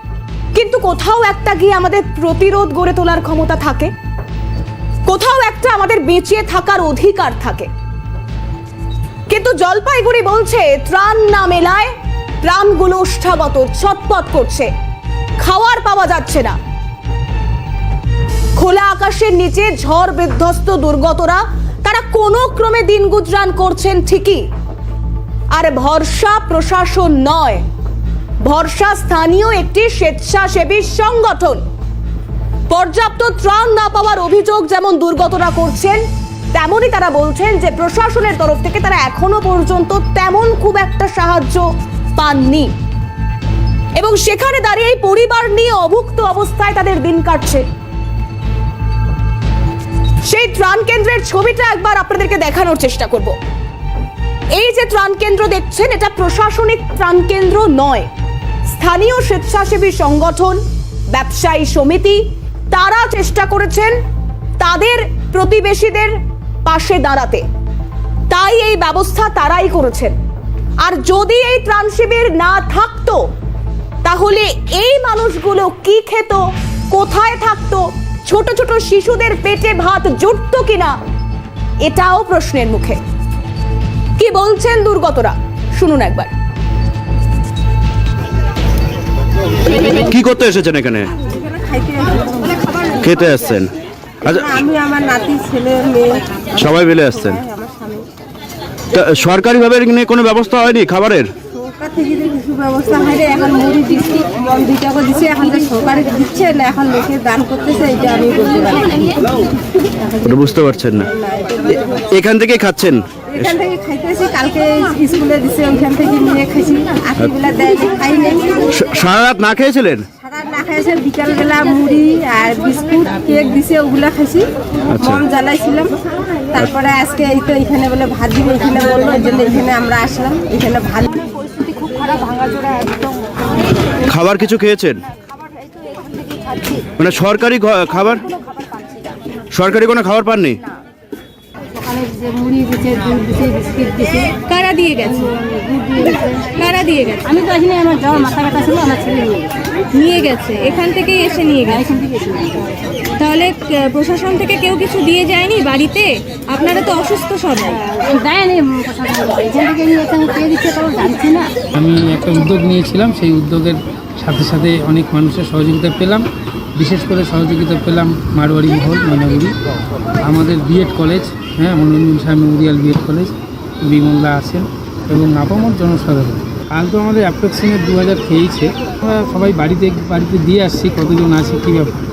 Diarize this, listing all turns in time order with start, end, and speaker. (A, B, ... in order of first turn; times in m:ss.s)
0:00.5-0:03.9 A
0:05.1-0:07.7 A
0:09.3-0:14.7 A
0:15.4-0:16.6 A
0:18.6-0:24.4 A
0:25.5-0:27.6 A
0:28.4-0:31.6 A
0:32.7-0:36.0 A
0:36.5-0:42.7 A
0:44.0-0:47.6 A
0:50.2-0:53.4 A
0:54.5-0:58.1 A
0:58.7-1:00.6 A
1:01.1-1:04.0 A
1:04.6-1:07.4 A
1:08.3-1:10.1 A
1:10.8-1:13.3 A
1:14.0-1:21.0 A
1:21.8-1:23.0 A
1:24.2-1:26.3 A
1:30.1-1:31.1 B
1:31.3-1:32.9 C
1:33.0-1:33.7 B
1:34.2-1:34.6 B
1:34.5-1:36.3 C
1:36.6-1:37.4 B
1:37.4-1:38.1 C
1:38.9-1:41.3 B
1:41.6-1:49.3 C
1:50.2-1:51.1 B
1:51.3-1:51.6 C
1:51.7-1:53.5 B
1:53.4-1:58.6 C
1:58.7-2:00.0 B
2:00.2-2:04.5 C
2:04.9-2:05.2 B
2:05.1-2:06.0 C
2:06.5-2:11.3 C
2:11.6-2:13.0 D
2:14.0-2:15.0 B
2:16.8-2:18.2 B
2:19.5-2:20.6 B
2:21.8-2:24.4 D
2:24.4-2:25.2 E
2:25.1-2:26.5 D
2:26.6-2:27.3 E
2:27.2-2:29.5 D
2:29.9-2:31.8 E
2:31.7-2:32.6 D
2:33.1-2:37.8 E
2:37.8-2:41.5 D
2:41.8-2:46.2 F
2:46.8-2:49.5 F
2:50.2-2:53.3 F
2:53.8-3:01.9 F